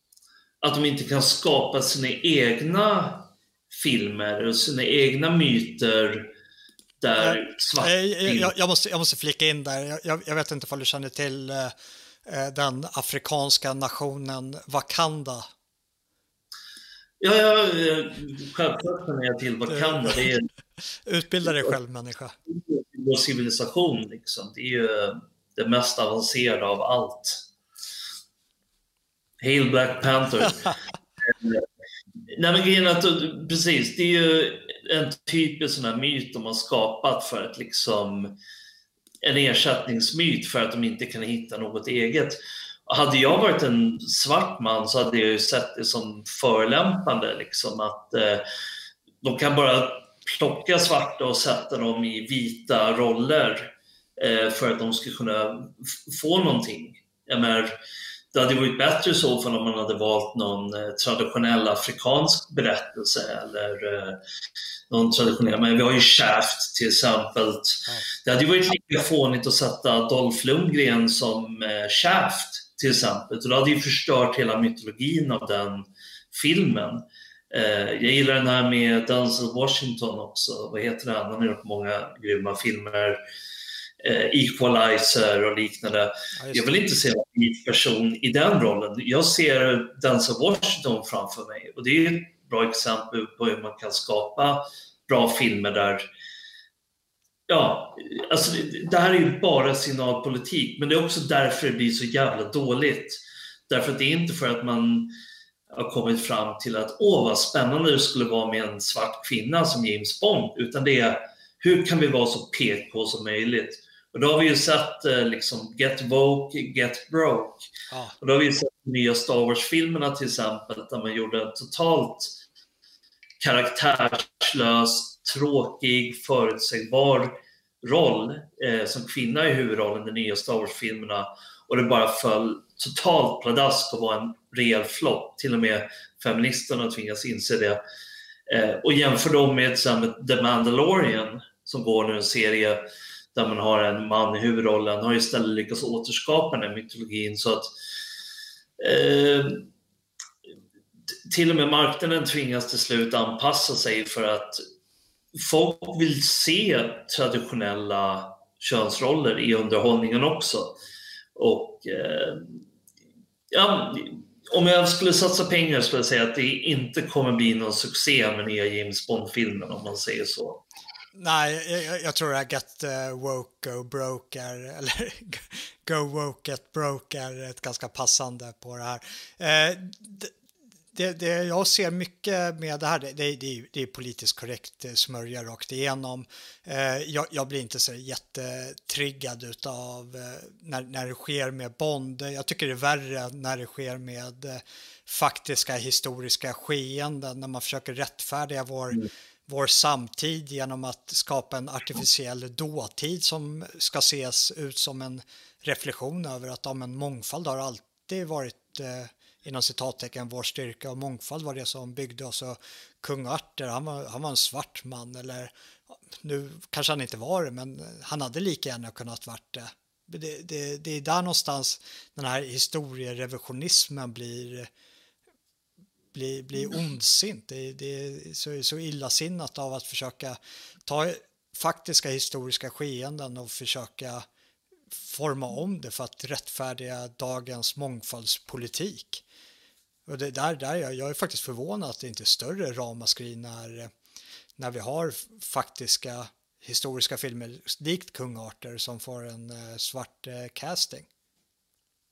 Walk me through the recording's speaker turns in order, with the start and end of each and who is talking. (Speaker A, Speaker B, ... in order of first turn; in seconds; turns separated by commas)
Speaker A: 0.6-6.3, Speaker A: 7.0-8.5, Speaker B: 7.2-11.7, Speaker B: 12.2-15.5, Speaker A: 17.2-20.5, Speaker B: 19.7-20.2, Speaker B: 21.1-22.4, Speaker A: 22.5-27.4, Speaker A: 29.4-30.8, Speaker A: 31.3-31.6, Speaker A: 32.3-38.4, Speaker A: 39.2-48.4, Speaker A: 49.2-57.8, Speaker A: 58.3-64.2, Speaker A: 64.9-83.2, Speaker A: 84.0-96.0, Speaker B: 86.4-86.9, Speaker A: 97.5-105.1, Speaker A: 105.7-117.7, Speaker B: 117.9-118.2, Speaker A: 118.2-122.4, Speaker A: 123.4-137.8, Speaker A: 138.5-147.7, Speaker A: 148.8-149.7, Speaker A: 151.2-154.6, Speaker A: 155.3-160.7, Speaker A: 161.3-162.6, Speaker A: 163.5-170.6, Speaker B: 171.1-180.3, Speaker B: 180.9-215.5, Speaker B: 216.2-224.7, Speaker B: 226.1-234.2, Speaker B: 234.9-239.2, Speaker B: 240.1-243.9, Speaker B: 244.6-251.1